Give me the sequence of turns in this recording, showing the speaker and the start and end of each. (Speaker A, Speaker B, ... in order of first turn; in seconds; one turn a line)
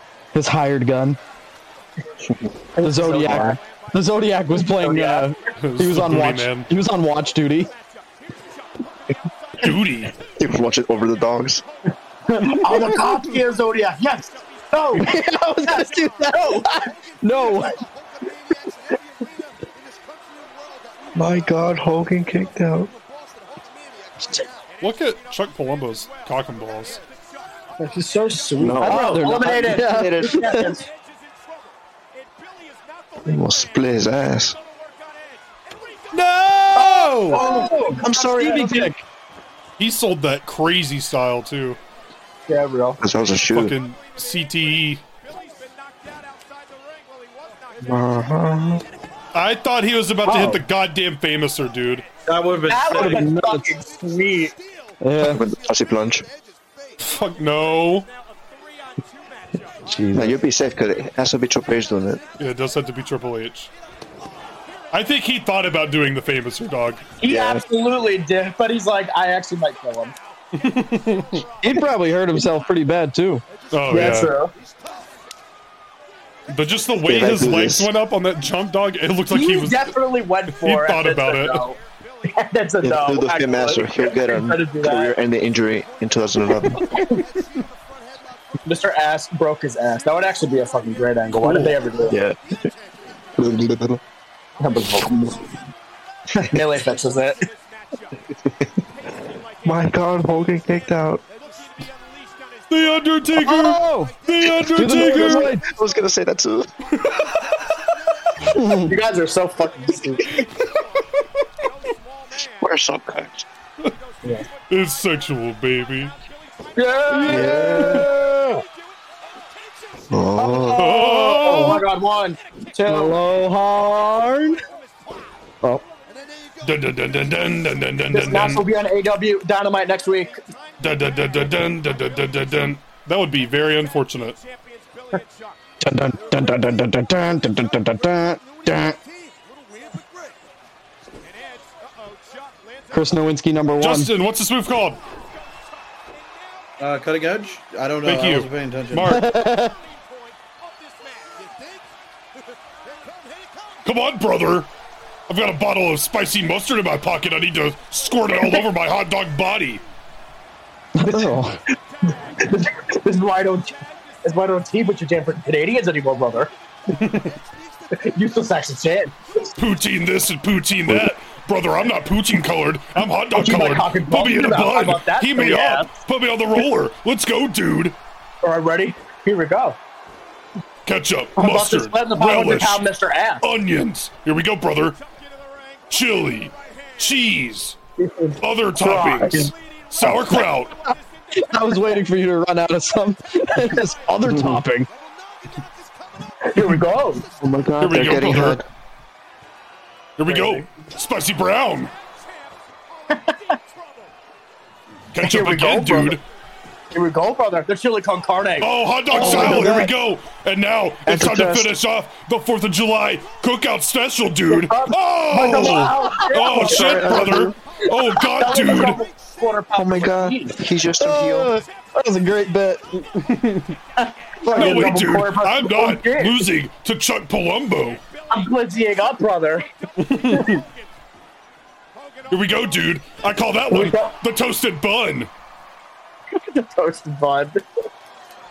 Speaker A: 0.3-1.2
Speaker B: 2.8-3.6
Speaker A: 2.8-7.7
Speaker B: 4.6-5.3
Speaker C: 5.6-6.7
Speaker C: 9.6-10.1
Speaker D: 10.2-11.6
Speaker B: 12.3-16.7
Speaker A: 15.0-17.8
Speaker D: 21.1-22.9
Speaker C: 24.8-27.0
Speaker B: 27.8-30.8
Speaker D: 28.6-30.6
Speaker A: 28.8-30.8
Speaker D: 33.2-34.6
Speaker C: 36.1-37.5
Speaker B: 36.8-38.9
Speaker D: 37.4-38.9
Speaker A: 37.4-39.0
Speaker C: 39.8-41.8
Speaker B: 42.5-43.0
Speaker D: 43.0-43.8
Speaker C: 43.5-45.0
Speaker D: 47.8-48.8
Speaker C: 49.3-52.0
Speaker B: 50.2-50.6
Speaker E: 52.2-53.3
Speaker B: 52.7-54.5
Speaker A: 53.0-53.6
Speaker A: 55.0-55.4
Speaker D: 55.2-56.2
Speaker C: 57.0-58.1
Speaker A: 59.9-60.4
Speaker D: 60.1-62.2
Speaker C: 62.4-63.7
Speaker C: 64.9-67.0
Speaker B: 67.2-70.1
Speaker D: 67.2-67.6
Speaker C: 70.5-71.4
Speaker A: 71.6-74.2
Speaker C: 73.7-74.3
Speaker B: 73.9-74.5
Speaker C: 76.5-80.0
Speaker D: 77.0-77.9
Speaker B: 79.3-81.8
Speaker C: 80.5-81.7
Speaker B: 82.3-85.1
Speaker D: 82.8-87.1
Speaker B: 86.8-87.1
Speaker B: 88.7-92.2
Speaker D: 91.5-92.4
Speaker D: 93.3-94.0
Speaker B: 94.6-95.4
Speaker B: 96.4-97.4
Speaker D: 99.6-101.2
Speaker C: 102.7-105.5
Speaker A: 103.4-104.1
Speaker D: 104.4-106.8
Speaker A: 104.7-105.6
Speaker A: 108.4-108.9
Speaker B: 108.8-110.4
Speaker D: 112.6-113.4
Speaker C: 114.7-116.1
Speaker B: 116.8-118.0
Speaker A: 117.1-118.6
Speaker D: 117.2-118.1
Speaker D: 120.1-120.9
Speaker A: 120.4-121.2
Speaker C: 120.7-121.8
Speaker B: 121.1-123.2
Speaker A: 122.9-124.6
Speaker C: 126.6-128.7
Speaker B: 128.1-130.3
Speaker C: 130.8-134.4
Speaker A: 135.8-139.0
Speaker A: 142.9-144.1
Speaker C: 143.8-145.0
Speaker E: 146.8-149.1
Speaker C: 148.0-149.3
Speaker A: 149.1-149.8
Speaker C: 153.8-154.7
Speaker C: 155.3-159.8
Speaker A: 160.9-161.6
Speaker B: 162.4-166.5
Speaker C: 166.9-167.3
Speaker B: 167.9-169.2
Speaker C: 169.6-178.0
Speaker B: 173.3-175.9
Speaker B: 178.4-179.8
Speaker C: 180.8-182.9
Speaker B: 181.4-183.4
Speaker C: 183.4-185.0
Speaker C: 185.9-187.8
Speaker B: 188.0-189.5
Speaker C: 188.4-190.8
Speaker A: 190.0-190.4
Speaker A: 191.3-194.9
Speaker D: 194.3-194.6
Speaker B: 196.5-197.2
Speaker D: 197.4-198.6
Speaker C: 197.8-198.6
Speaker C: 200.2-201.9
Speaker B: 203.1-203.6
Speaker C: 205.1-206.2
Speaker B: 205.2-206.2
Speaker B: 206.9-209.9
Speaker C: 208.6-219.0
Speaker A: 209.1-209.8
Speaker D: 211.1-211.7
Speaker B: 214.5-217.3
Speaker D: 216.5-217.5
Speaker B: 218.3-220.6
Speaker D: 219.7-221.5
Speaker A: 221.0-222.9
Speaker C: 223.1-223.8
Speaker B: 224.0-226.4
Speaker C: 224.4-228.0
Speaker A: 224.5-224.9
Speaker B: 228.3-229.7
Speaker C: 230.0-230.6
Speaker C: 232.3-235.3
Speaker B: 233.7-234.1
Speaker B: 236.3-237.6